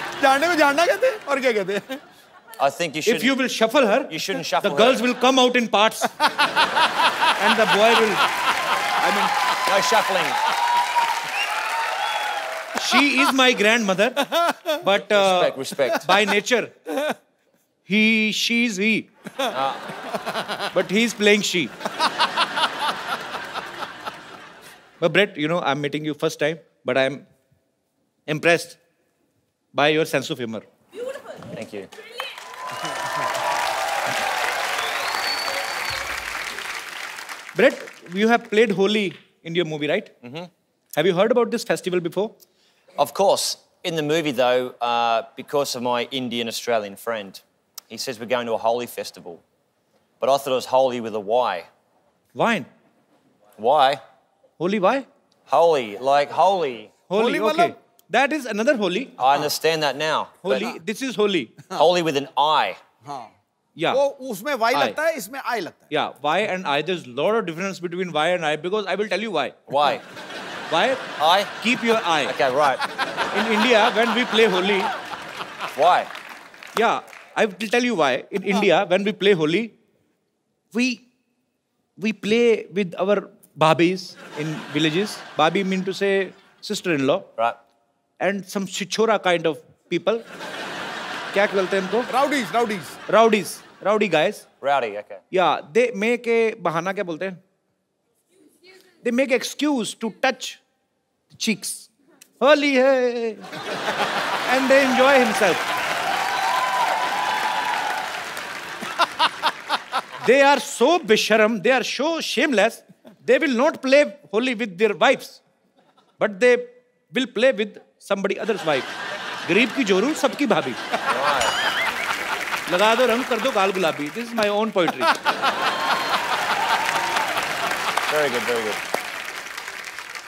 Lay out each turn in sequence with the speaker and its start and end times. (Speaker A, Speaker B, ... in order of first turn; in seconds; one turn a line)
Speaker A: 0.2-2.0
Speaker B: 2.6-3.4
Speaker C: 3.1-6.1
Speaker B: 4.1-5.0
Speaker C: 7.4-8.2
Speaker C: 9.0-9.3
Speaker B: 9.7-10.4
Speaker C: 12.8-16.7
Speaker B: 15.1-16.0
Speaker C: 17.9-19.1
Speaker B: 19.5-19.8
Speaker C: 20.7-21.7
Speaker C: 25.0-27.2
Speaker C: 28.3-28.8
Speaker C: 29.7-30.6
Speaker B: 31.5-31.9
Speaker C: 37.5-40.1
Speaker B: 40.2-40.5
Speaker C: 41.0-42.3
Speaker B: 43.0-49.4
Speaker B: 50.2-51.7
Speaker C: 52.3-52.7
Speaker B: 53.6-54.0
Speaker C: 54.6-55.1
Speaker B: 55.5-56.9
Speaker C: 57.1-59.1
Speaker A: 57.1-57.8
Speaker B: 59.2-60.7
Speaker C: 60.4-61.6
Speaker B: 61.7-62.8
Speaker A: 63.0-63.3
Speaker C: 63.8-64.0
Speaker A: 63.9-65.9
Speaker C: 64.7-65.0
Speaker C: 65.9-69.6
Speaker B: 69.7-70.0
Speaker C: 70.7-72.3
Speaker B: 71.2-71.5
Speaker B: 72.2-72.8
Speaker C: 73.3-74.9
Speaker B: 75.7-76.1
Speaker C: 76.7-79.7
Speaker C: 80.7-81.0
Speaker C: 82.0-87.3
Speaker C: 88.2-90.2
Speaker C: 91.3-92.1
Speaker A: 92.1-93.0
Speaker C: 93.1-94.5
Speaker B: 94.6-95.2
Speaker C: 95.3-97.4
Speaker C: 99.0-100.6
Speaker C: 101.3-101.9
Speaker C: 102.4-103.5
Speaker C: 104.5-105.7
Speaker C: 110.2-115.4
Speaker C: 116.2-118.9
Speaker C: 119.5-120.8
Speaker B: 121.0-121.5
Speaker C: 122.7-125.1
Speaker B: 128.1-128.8